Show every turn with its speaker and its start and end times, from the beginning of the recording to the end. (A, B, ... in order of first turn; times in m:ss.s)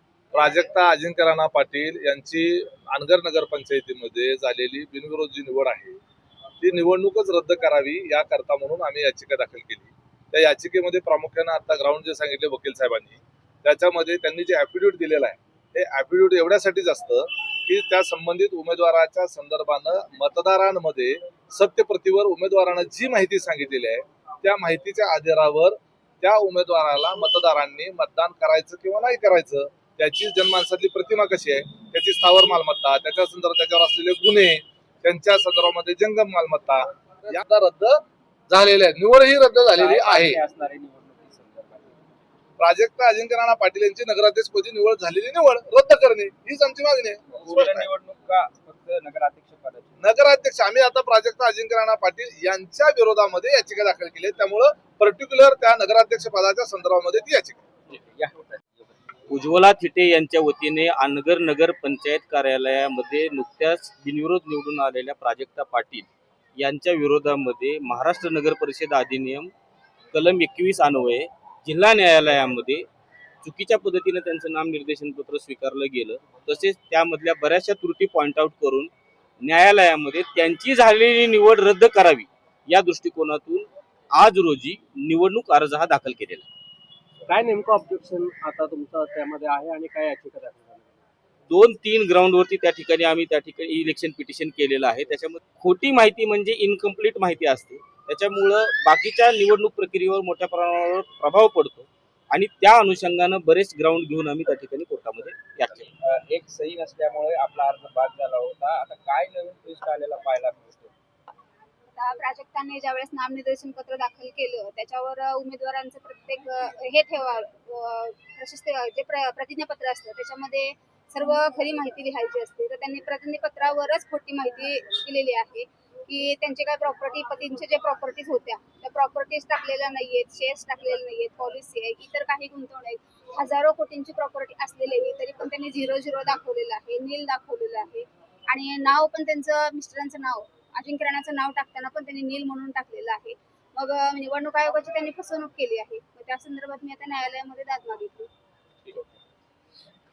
0:00.3-0:06.0 A
0:06.6-0:40.4 A
0:39.7-0:42.0 B
0:42.6-0:47.9 A
0:47.3-0:50.0 B
0:50.0-0:57.6 A
0:57.9-0:58.9 B
0:59.3-1:09.5 C
1:10.1-1:12.8 C
1:13.4-1:18.9 C
1:19.4-1:26.5 C
1:27.3-1:31.1 D
1:31.5-1:45.8 C
1:45.7-1:50.9 B
1:52.0-2:28.3 E